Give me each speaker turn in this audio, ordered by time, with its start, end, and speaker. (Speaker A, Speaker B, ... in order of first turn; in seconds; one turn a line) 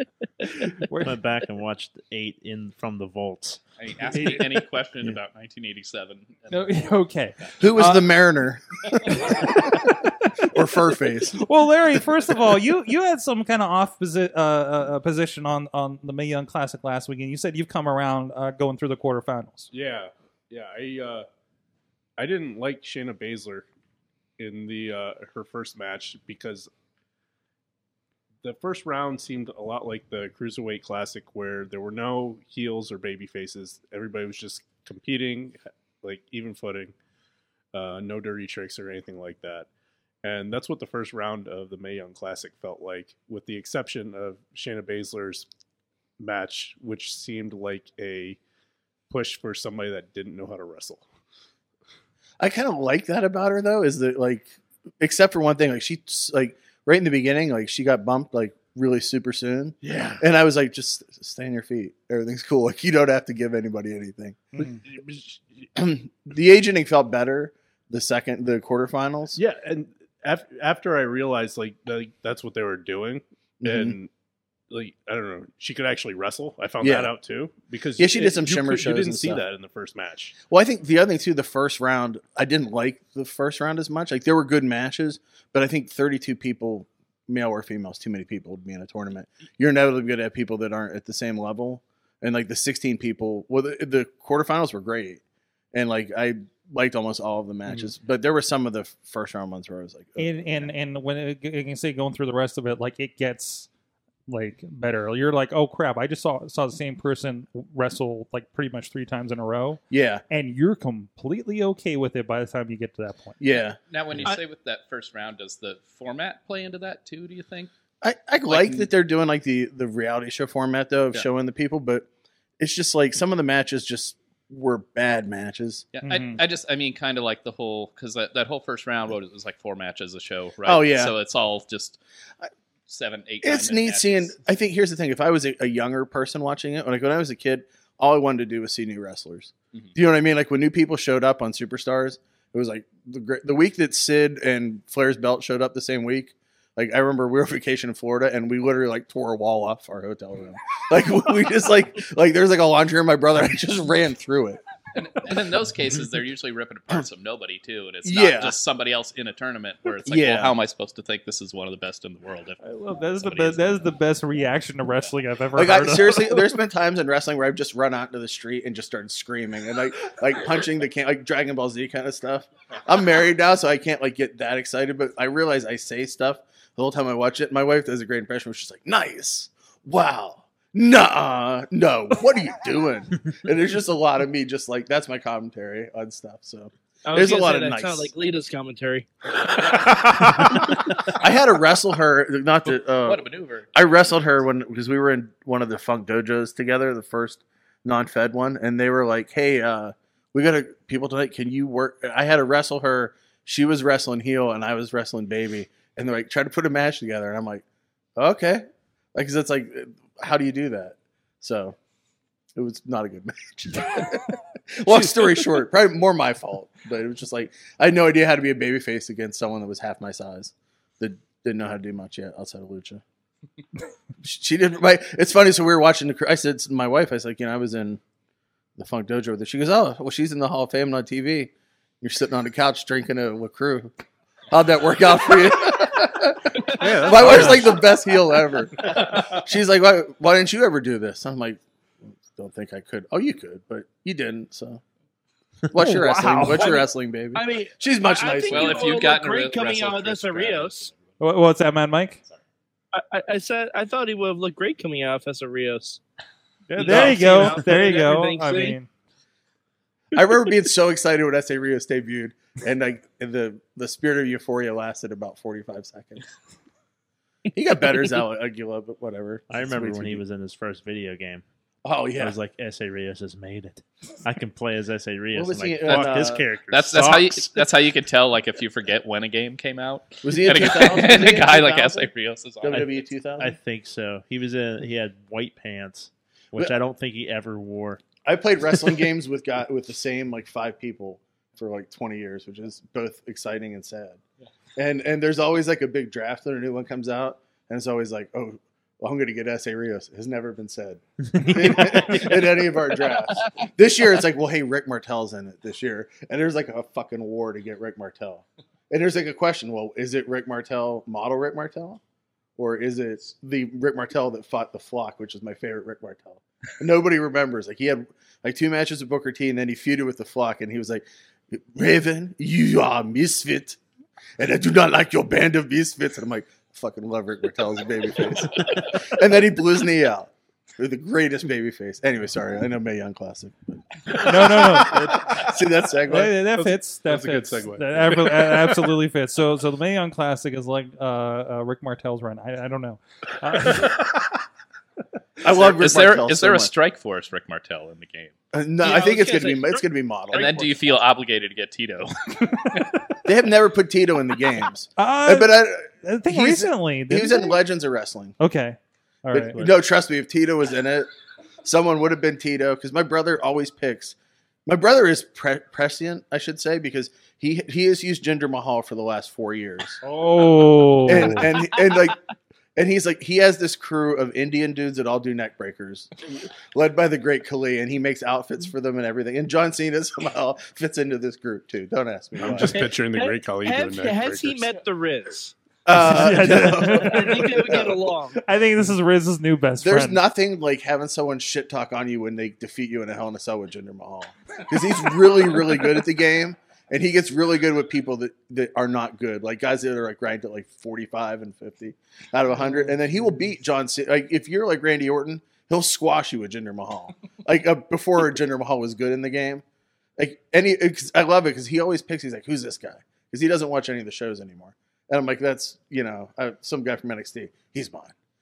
Speaker A: 0.7-1.2
Speaker B: 1.0-3.6
Speaker C: 3.8-6.8
Speaker A: 4.1-4.5
Speaker A: 6.5-8.1
Speaker D: 7.6-9.8
Speaker A: 9.1-10.3
Speaker D: 10.4-11.5
Speaker A: 11.4-19.7
Speaker E: 19.7-21.3
Speaker E: 22.2-23.7
Speaker E: 24.4-26.7
Speaker E: 28.4-36.9
Speaker E: 37.7-39.7
Speaker E: 40.2-45.5
Speaker E: 46.2-48.4
Speaker E: 49.1-51.1
Speaker D: 52.4-64.5
Speaker E: 59.8-60.2
Speaker E: 64.6-65.4
Speaker D: 65.8-69.4
Speaker E: 69.3-74.1
Speaker D: 73.6-74.0
Speaker E: 74.7-80.4
Speaker D: 76.8-77.2
Speaker D: 78.0-79.4
Speaker D: 80.5-95.2
Speaker D: 95.7-100.7
Speaker A: 100.2-103.7
Speaker A: 104.3-113.4
Speaker D: 109.9-110.2
Speaker D: 113.4-113.8
Speaker C: 113.9-117.7
Speaker D: 118.0-122.1
Speaker C: 118.5-118.9
Speaker D: 122.6-125.9
Speaker C: 125.9-132.0
Speaker A: 126.0-126.4
Speaker D: 130.7-131.1
Speaker C: 132.9-134.4
Speaker D: 133.4-154.6
Speaker C: 154.9-162.6
Speaker D: 158.0-158.6
Speaker D: 160.1-160.6
Speaker A: 162.6-166.4
Speaker C: 163.1-163.9
Speaker D: 165.6-188.1
Speaker F: 187.1-189.1
Speaker E: 189.7-190.5
Speaker D: 191.1-207.6
Speaker C: 192.9-193.7
Speaker D: 208.2-211.8
Speaker D: 212.6-223.0
Speaker D: 224.2-228.0
Speaker D: 228.8-233.9
Speaker D: 234.5-244.8
Speaker E: 236.8-237.8
Speaker D: 245.7-249.0
Speaker A: 245.8-246.8
Speaker F: 246.5-250.9
Speaker C: 248.5-251.0
Speaker A: 251.2-252.2
Speaker F: 252.9-256.0
Speaker B: 256.8-257.6
Speaker A: 256.8-258.9
Speaker F: 256.8-258.8
Speaker D: 260.1-266.3
Speaker D: 267.6-270.2
Speaker B: 269.5-271.4
Speaker D: 271.8-272.4
Speaker B: 272.2-277.7
Speaker D: 275.3-276.4
Speaker C: 275.9-282.9
Speaker D: 280.2-282.1
Speaker D: 282.6-283.6
Speaker B: 282.7-288.0
Speaker D: 288.2-294.2
Speaker D: 294.8-312.0
Speaker B: 301.3-302.4
Speaker D: 312.6-323.8
Speaker D: 324.4-336.4
Speaker A: 334.2-335.1
Speaker E: 334.7-335.2
Speaker A: 336.1-344.0
Speaker E: 336.5-338.9
Speaker D: 345.4-346.7
Speaker C: 345.4-348.3
Speaker D: 348.5-350.8
Speaker F: 348.8-350.5
Speaker C: 350.3-352.9
Speaker D: 353.2-358.4
Speaker A: 355.0-357.6
Speaker A: 358.4-359.6
Speaker D: 359.3-361.1
Speaker B: 359.5-359.8
Speaker D: 361.6-370.0
Speaker A: 370.1-371.5
Speaker D: 371.1-372.2
Speaker D: 372.8-376.1
Speaker D: 376.7-382.8
Speaker E: 382.4-384.7
Speaker F: 382.7-385.6
Speaker D: 385.9-388.0
Speaker A: 385.9-387.6
Speaker F: 386.4-388.4
Speaker A: 388.4-390.2
Speaker D: 389.8-409.6
Speaker D: 410.2-418.1